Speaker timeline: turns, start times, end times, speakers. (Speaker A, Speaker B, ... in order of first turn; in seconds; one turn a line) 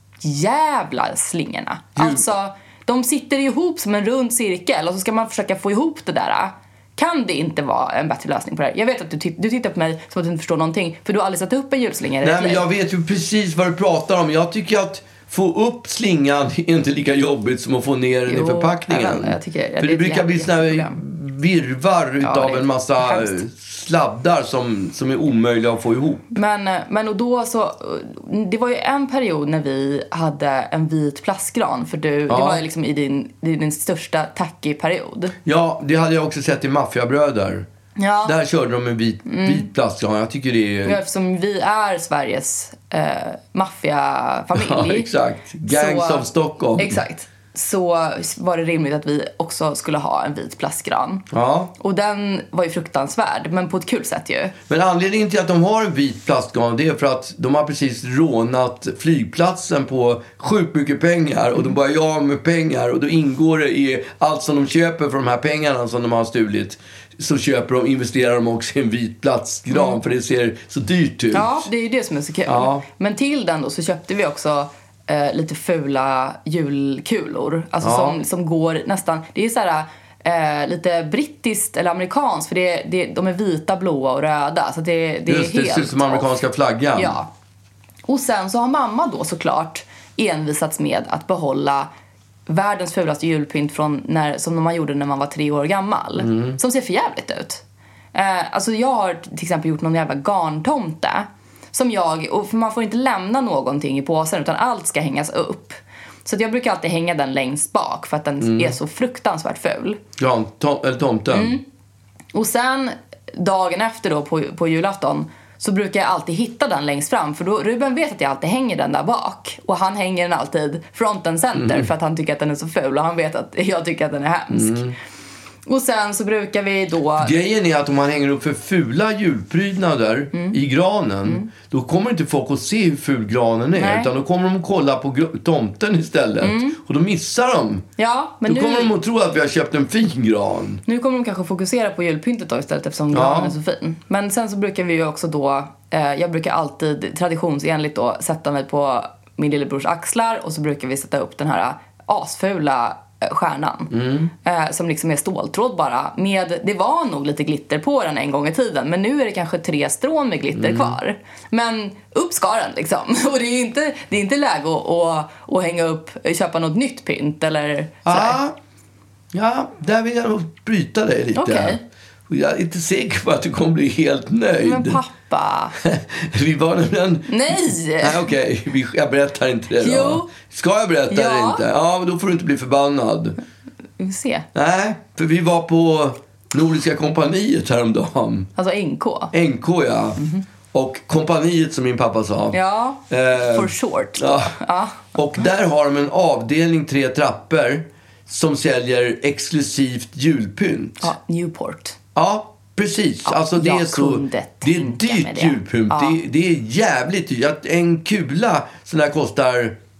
Speaker A: 0.2-12.6
Speaker B: 1.9-2.2
Speaker B: 12.2-26.2
Speaker A: 18.3-21.0
Speaker A: 22.2-23.4
Speaker A: 26.3-35.3
Speaker B: 32.3-32.6
Speaker B: 35.4-37.7
Speaker A: 38.0-38.3
Speaker B: 38.2-41.0
Speaker A: 39.2-39.7
Speaker A: 40.8-45.1
Speaker B: 44.5-47.0
Speaker A: 45.6-51.2
Speaker B: 51.3-51.7
Speaker A: 51.8-54.5
Speaker B: 54.7-71.7
Speaker A: 69.7-70.0
Speaker A: 71.3-86.4
Speaker B: 72.5-72.8
Speaker B: 77.8-78.2
Speaker B: 85.2-87.2
Speaker A: 87.0-87.3
Speaker A: 88.1-91.9
Speaker A: 92.5-97.6
Speaker B: 96.2-96.6
Speaker A: 98.1-110.0
Speaker B: 108.4-108.8
Speaker B: 110.2-111.6
Speaker A: 111.3-111.6
Speaker A: 112.3-124.9
Speaker B: 121.5-121.9
Speaker B: 124.5-124.9
Speaker A: 125.7-127.4
Speaker B: 127.2-137.8
Speaker A: 130.3-130.6
Speaker A: 133.7-134.1
Speaker A: 136.4-136.8
Speaker A: 138.0-138.9
Speaker B: 138.4-140.8
Speaker A: 140.8-153.9
Speaker B: 143.1-143.6
Speaker B: 153.9-154.3
Speaker A: 154.4-168.4
Speaker B: 160.5-161.0
Speaker B: 168.0-168.5
Speaker B: 169.3-175.0
Speaker A: 171.3-171.8
Speaker A: 174.6-175.7
Speaker B: 175.8-183.4
Speaker A: 177.3-178.3
Speaker A: 179.8-180.3
Speaker A: 181.1-181.6
Speaker A: 184.0-184.4
Speaker B: 184.5-188.5
Speaker A: 188.6-189.3
Speaker B: 189.3-190.2
Speaker A: 190.2-190.4
Speaker B: 190.7-194.6
Speaker A: 192.5-195.1
Speaker B: 195.1-201.1
Speaker A: 201.0-202.0
Speaker B: 202.1-209.8
Speaker A: 203.2-206.2